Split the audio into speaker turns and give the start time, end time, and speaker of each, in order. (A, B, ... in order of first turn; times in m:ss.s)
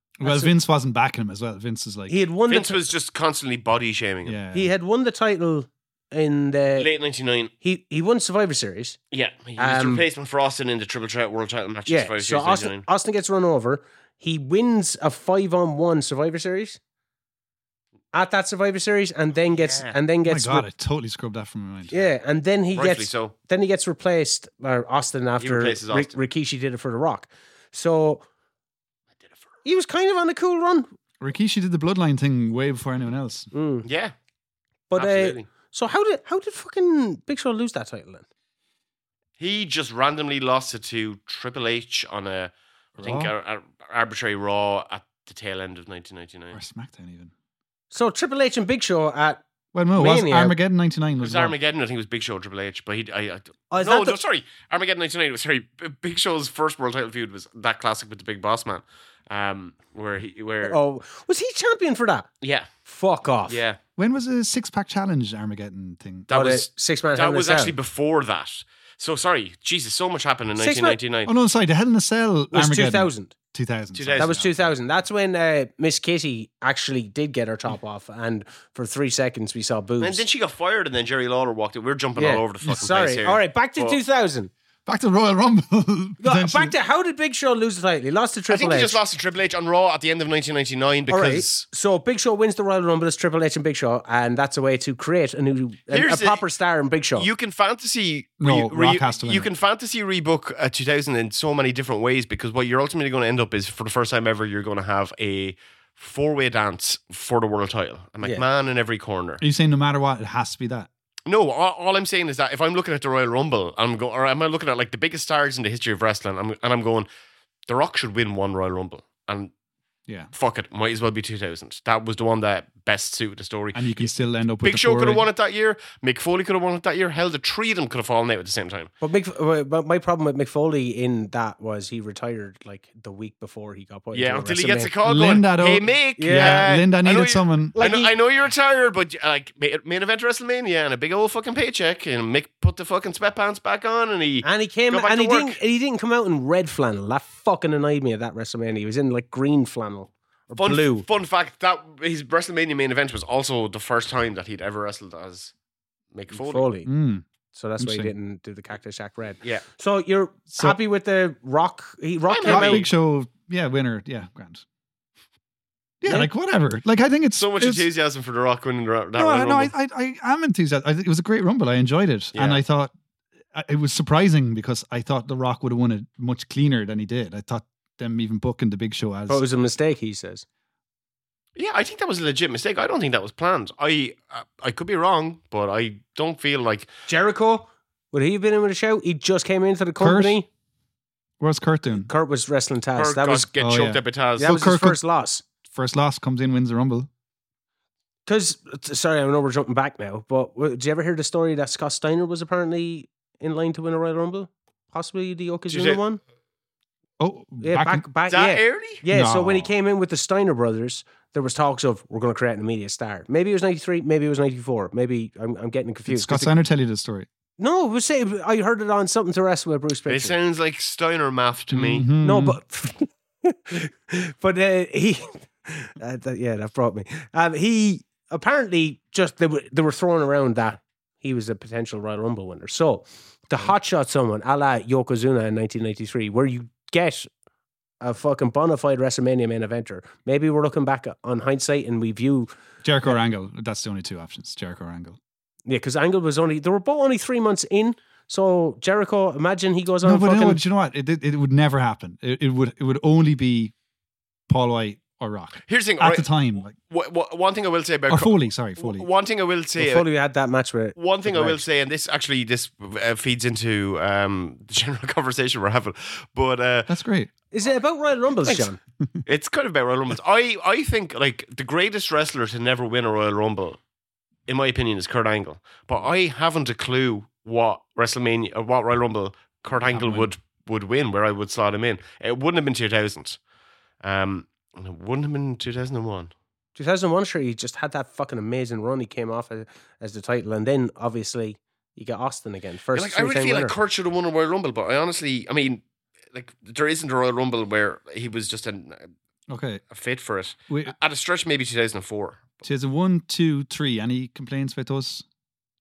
0:00.2-0:02.2 A
0:00.2-0:00.5 B
0:02.1-0:02.8 B
0:02.5-0:04.4 C
0:04.2-0:04.7 A
0:04.5-0:06.9 B
0:06.8-0:07.5 C
0:07.6-0:09.0 B
0:09.1-0:12.8 C
0:09.6-0:10.0 B
0:11.9-0:16.8 B
0:18.1-0:20.7 B
0:19.5-0:20.0 C
0:20.2-0:21.9 A
0:21.9-0:28.2 B
0:22.7-0:23.3 C
0:25.4-0:26.2 C
0:29.6-0:30.9 B
0:31.2-0:33.5 A
0:33.5-0:33.9 B
0:33.8-0:34.1 C
0:34.9-0:38.2 B
0:35.0-0:35.5 C
0:39.4-0:46.6 C
0:43.0-0:43.3 A
0:46.5-0:47.3 A
0:47.9-0:49.4 B
0:49.7-0:51.6 A
0:50.0-0:50.6 B
0:51.2-1:00.8 C
0:53.7-0:54.2 B
1:00.6-1:02.3 B
1:02.4-1:02.7 C
1:02.8-1:03.6 B
1:03.5-1:03.8 C
1:04.0-1:06.3 A
1:06.3-1:11.3 C
1:06.3-1:07.7 B
1:10.6-1:11.0 B
1:11.3-1:14.6 A
1:12.5-1:13.3 B
1:13.9-1:14.4 C
1:14.2-1:20.2 B
1:20.0-1:24.0 C
1:22.2-1:24.5 B
1:24.9-1:26.8 A
1:26.2-1:29.0 B
1:28.5-1:31.7 C
1:31.1-1:37.3 B
1:35.9-1:36.4 C
1:37.2-1:49.4 C
1:38.4-1:39.5 A
1:49.4-1:50.9 A
1:51.3-1:57.1 C
1:57.7-1:59.5 C
2:00.3-2:04.1 C
2:03.7-2:05.2 A
2:04.6-2:08.9 C
2:09.0-2:14.9 B
2:14.1-2:25.6 C
2:15.0-2:17.8 A
2:16.2-2:16.7 B
2:17.8-2:18.1 B
2:24.4-2:31.1 B
2:30.6-2:35.5 C
2:36.1-2:36.7 C
2:36.3-2:36.9 B
2:36.9-2:37.2 A
2:37.5-2:42.9 B
2:37.8-2:38.1 A
2:42.3-2:42.9 C
2:42.5-2:44.6 A
2:46.0-2:47.8 A
2:47.4-2:49.7 C
2:49.2-2:52.9 A
2:52.3-2:52.6 C
2:53.5-2:59.4 A
2:59.3-3:00.4 B
3:01.6-3:06.9 C
3:07.1-3:10.5 B
3:10.0-3:10.4 A
3:11.4-3:12.1 A
3:12.0-3:13.5 B
3:13.0-3:14.6 C
3:13.6-3:15.0 A
3:14.4-3:15.4 B
3:15.7-3:17.1 A
3:18.3-3:26.2 B
3:25.7-3:26.0 C
3:27.2-3:28.1 A
3:27.6-3:36.5 B
3:28.3-3:29.0 C
3:29.1-3:29.7 A
3:36.1-3:37.3 A
3:37.6-3:40.4 B
3:40.1-3:42.1 C
3:41.7-3:42.6 A
3:42.2-3:57.3 B
3:58.0-4:02.5 B
4:02.8-4:05.2 A
4:05.7-4:10.6 B
4:10.0-4:13.7 A
4:14.5-4:16.7 A
4:15.7-4:20.0 C
4:18.1-4:19.1 A
4:19.8-4:21.6 B
4:21.0-4:26.9 C
4:26.9-4:27.3 A
4:27.5-4:28.8 B
4:29.3-4:33.8 C
4:34.5-4:43.4 C
4:39.9-4:40.3 A
4:44.0-4:46.3 C
4:46.8-4:53.8 B
4:53.0-4:59.1 C
4:59.5-4:59.8 A
4:59.9-5:02.6 C
5:00.7-5:01.0 A
5:02.6-5:05.2 A